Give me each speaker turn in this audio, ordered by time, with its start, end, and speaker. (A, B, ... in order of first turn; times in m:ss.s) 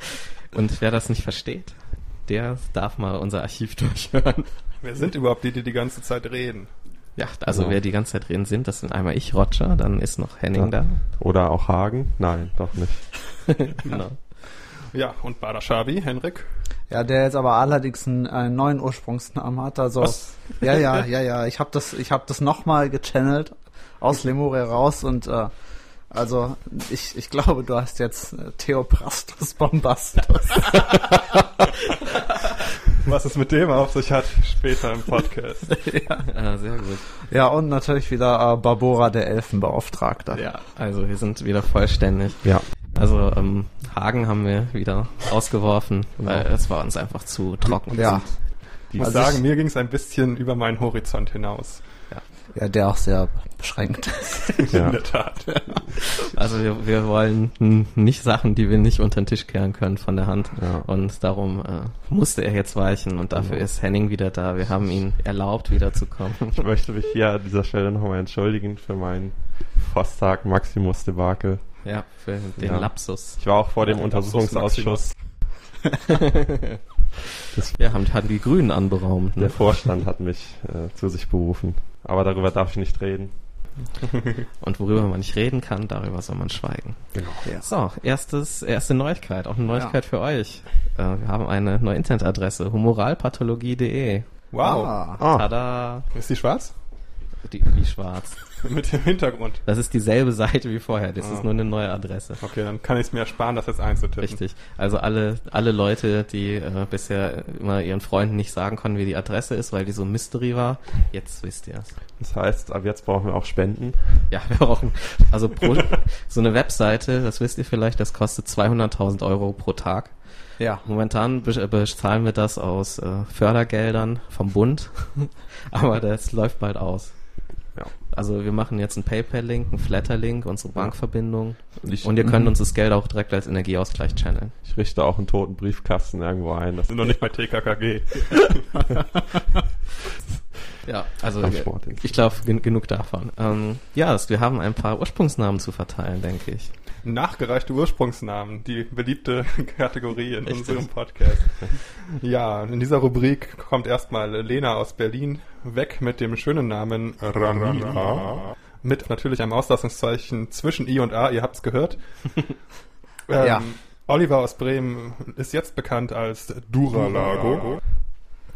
0:00.1-0:04.6 A
0:04.8-0:06.8 B
0:07.2-0:11.0 A
0:07.5-0:07.8 C
0:10.5-0:13.6 C
0:13.5-0:14.2 A
0:14.2-0:16.5 B
0:16.9-0:31.4 D
0:20.0-0:20.9 B
0:32.9-0:36.0 B
0:35.8-0:36.4 D
0:36.3-0:37.1 A
0:37.3-0:40.5 D
0:40.3-0:48.2 A
0:46.2-0:46.5 C
0:47.7-0:52.1 B
0:47.9-0:49.4 D
0:48.9-0:49.3 C
0:52.5-0:54.8 D
0:54.7-0:55.3 C
0:54.7-0:55.9 B
0:55.6-0:55.8 D
0:56.3-1:06.6 A
1:00.6-1:00.9 C
1:03.3-1:03.7 C
1:06.5-1:15.4 C
1:11.8-1:13.4 A
1:13.8-1:15.2 B
1:17.5-1:18.1 C
1:17.7-1:19.8 A
1:19.4-1:23.8 C
1:24.6-1:34.5 A
1:27.1-1:27.4 C
1:27.4-1:27.7 D
1:29.7-1:30.0 D
1:34.5-1:35.0 B
1:34.6-1:35.2 D
1:35.2-1:35.5 C
1:35.3-1:36.1 A
1:36.1-1:36.8 B
1:37.4-1:38.4 A
1:38.6-1:39.6 B
1:39.7-1:42.4 A
1:41.2-1:41.9 B
1:42.4-1:44.4 B
1:44.2-1:52.0 A
1:52.2-1:54.3 C
1:54.3-2:14.6 A
2:00.6-2:00.9 D
2:10.7-2:12.6 C
2:14.6-2:17.4 C
2:16.9-2:18.9 B
2:20.8-2:26.7 A
2:21.4-2:22.3 C
2:27.0-2:42.6 B
2:30.5-2:31.3 A
2:43.3-2:48.2 B
2:43.4-2:43.7 D